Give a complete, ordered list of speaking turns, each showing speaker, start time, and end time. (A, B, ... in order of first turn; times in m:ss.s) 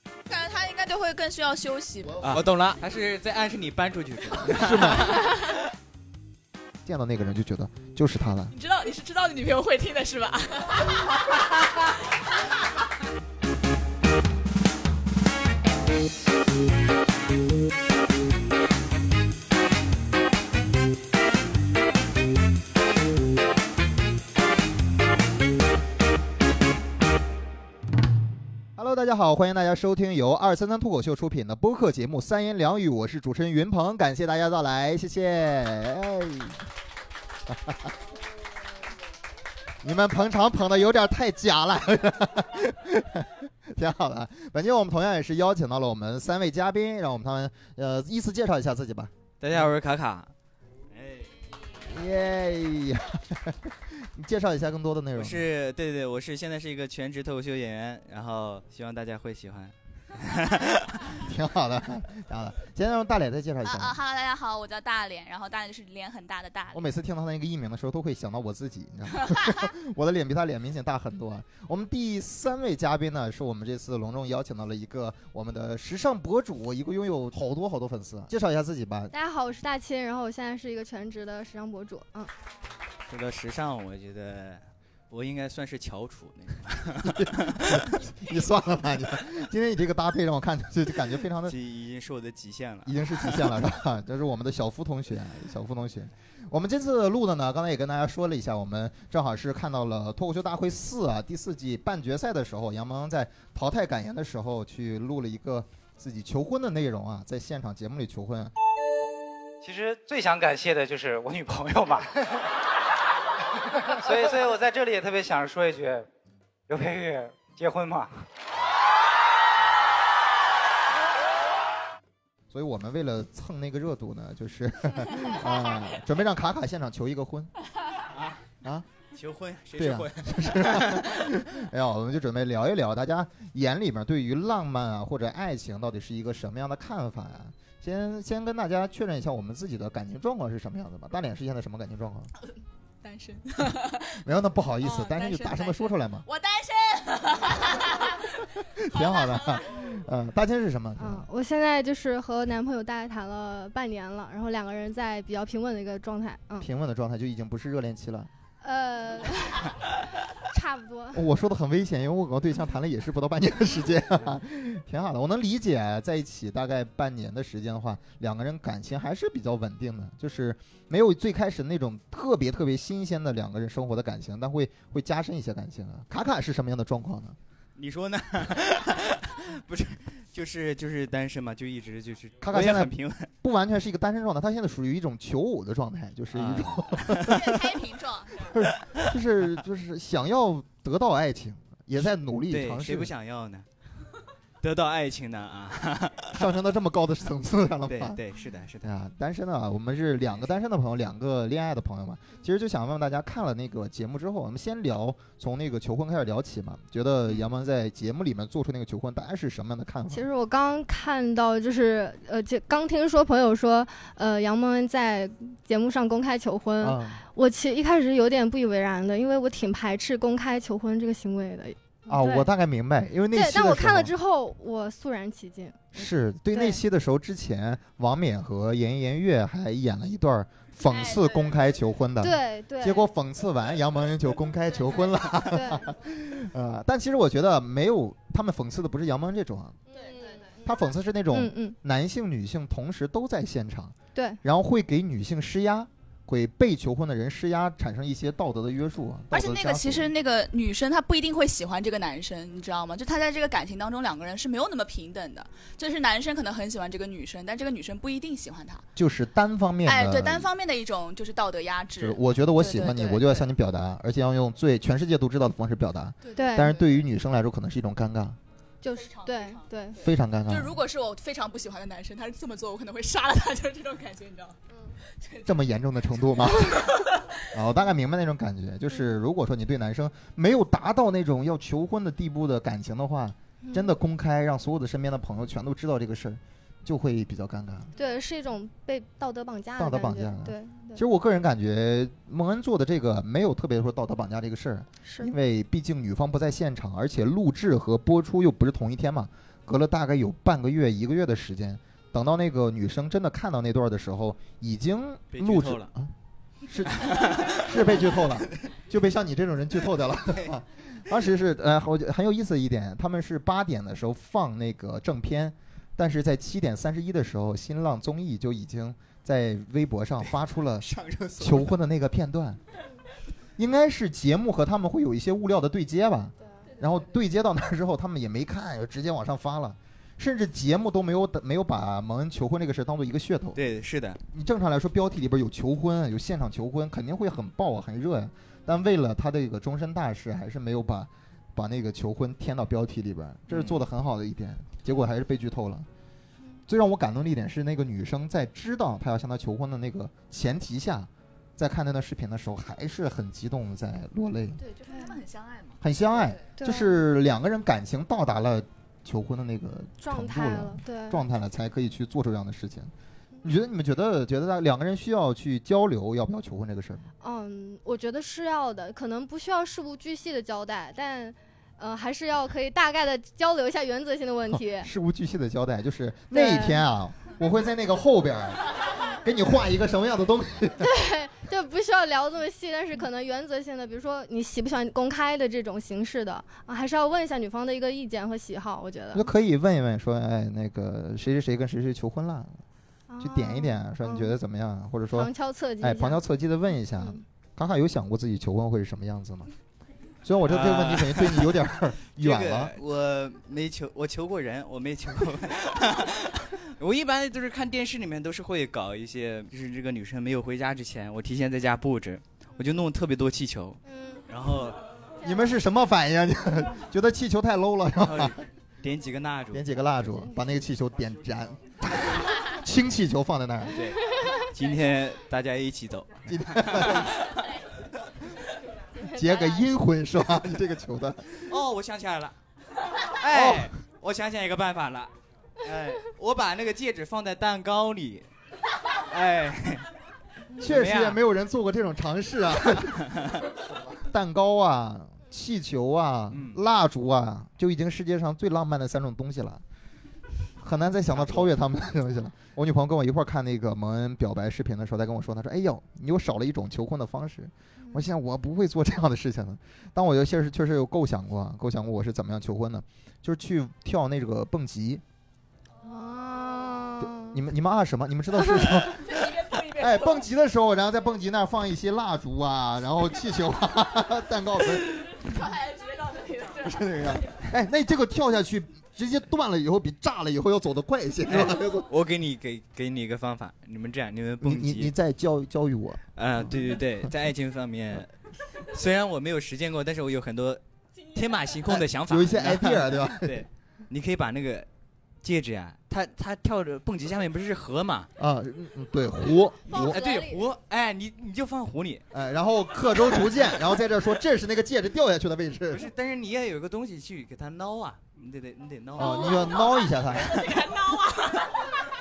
0:00.3-0:02.2 A
0:02.2-0:05.5 B
0:04.5-0:05.3 C
0:06.8-0:08.5 C
0:08.5-0:11.3 A
0:28.8-0:36.6 C
0:37.5-0:37.9 C
0:39.8-0:49.7 C
0:49.4-0:50.3 B
0:50.9-0:51.4 B
0:51.8-0:55.5 C
0:55.2-1:01.2 B
1:01.2-1:04.0 C
1:03.6-1:06.8 A
1:06.7-1:19.1 C
1:19.1-1:22.3 D
1:23.1-1:27.9 B
1:27.0-1:31.6 C
1:31.4-1:33.5 B
1:32.8-1:48.5 C
1:49.6-1:52.3 E
1:54.0-1:56.1 E
1:56.7-1:58.2 E
2:02.5-2:07.5 C
2:08.1-2:08.4 B
2:09.1-2:11.2 B
2:09.8-2:22.3 C
2:23.0-2:24.2 A
2:23.6-2:26.2 C
2:24.8-2:29.8 A
2:28.8-2:31.3 C
2:31.0-2:36.7 D
2:36.6-2:38.3 C
2:38.6-2:39.8 D
2:40.5-2:41.2 D
2:41.1-2:57.4 C
2:57.8-3:03.3 B
3:02.4-3:07.6 C
3:06.3-3:07.6 B
3:07.2-3:08.5 A
3:08.5-3:13.1 C
3:12.5-3:13.7 B
3:14.6-3:16.4 B
3:16.3-3:18.2 C
3:17.8-3:18.9 B
3:18.8-3:30.2 C
3:30.1-3:42.5 D
3:36.8-3:37.2 C
3:42.1-3:44.1 C
3:43.3-3:45.9 D
3:45.9-3:59.8 C
3:46.5-3:46.8 D
3:50.8-3:51.8 A
3:52.2-3:53.1 D
3:55.5-3:55.9 D
3:59.9-4:00.6 A
3:59.9-4:00.4 D
4:00.6-4:10.1 C
4:01.3-4:01.8 D
4:04.2-4:04.4 D
4:09.3-4:18.8 A
4:19.0-4:20.5 C
4:19.8-4:23.5 A
4:22.0-4:28.4 C
4:26.2-4:26.9 A
4:26.4-4:26.8 D
4:28.8-4:30.0 D
4:28.9-4:29.8 A
4:30.0-4:30.8 C
4:30.5-4:34.6 A
4:35.1-4:35.5 A
4:35.4-4:36.9 C
4:37.5-4:47.9 C
4:43.6-4:43.9 D
4:48.0-4:51.0 D
4:49.8-5:06.1 C
4:55.0-4:55.3 D
5:05.3-5:05.9 B
5:06.7-5:22.6 C
5:07.0-5:08.1 B
5:10.3-5:10.5 B
5:20.2-5:21.8 B
5:23.6-5:33.6 C
5:33.6-5:34.2 B
5:34.3-5:45.9 C
5:43.5-5:43.8 B
5:46.7-5:54.6 C
5:54.6-5:56.4 A
5:54.9-5:55.2 D
5:55.8-6:02.9 C
5:56.6-5:57.0 D
6:00.0-6:01.2 D
6:03.4-6:07.1 C
6:07.2-6:14.9 D
6:14.5-6:18.7 C
6:16.3-6:16.8 D
6:19.2-6:20.9 C
6:20.8-6:29.2 D
6:29.1-6:32.6 C
6:33.1-6:34.4 D
6:33.2-6:39.5 C
6:35.1-6:36.2 D
6:37.0-6:37.2 D
6:40.2-6:42.8 C
6:40.5-6:41.6 B
6:42.2-6:54.8 B
6:53.9-6:54.2 D
6:55.2-6:58.4 C
6:58.0-6:59.9 B
6:59.5-7:03.9 C
7:03.7-7:07.1 B
7:06.2-7:07.3 C
7:09.0-7:09.4 D
7:09.0-7:11.6 C
7:11.5-7:12.4 B
7:12.9-7:18.3 B
7:13.3-7:13.7 C
7:19.1-7:19.9 B
7:20.6-7:21.2 B
7:20.6-7:23.2 C
7:24.0-7:29.6 C
7:26.3-7:26.6 B
7:30.6-7:45.0 C
7:31.1-7:31.5 B
7:37.8-7:38.1 D
7:45.8-7:47.4 D
7:47.0-7:55.3 C
7:49.1-7:50.2 A
7:55.2-7:56.8 A
7:56.6-8:01.9 C
8:01.2-8:04.9 B
8:04.4-8:06.0 C
8:06.2-8:10.6 B
8:11.1-8:14.7 B
8:11.2-8:11.5 A
8:11.7-8:13.4 C
8:15.2-8:18.1 B
8:18.2-8:20.0 C
8:19.7-8:20.4 A
8:19.7-8:22.0 B
8:22.1-8:25.9 C
8:25.7-8:30.8 B
8:29.0-8:30.5 C
8:29.0-8:29.7 A
8:30.4-8:31.3 A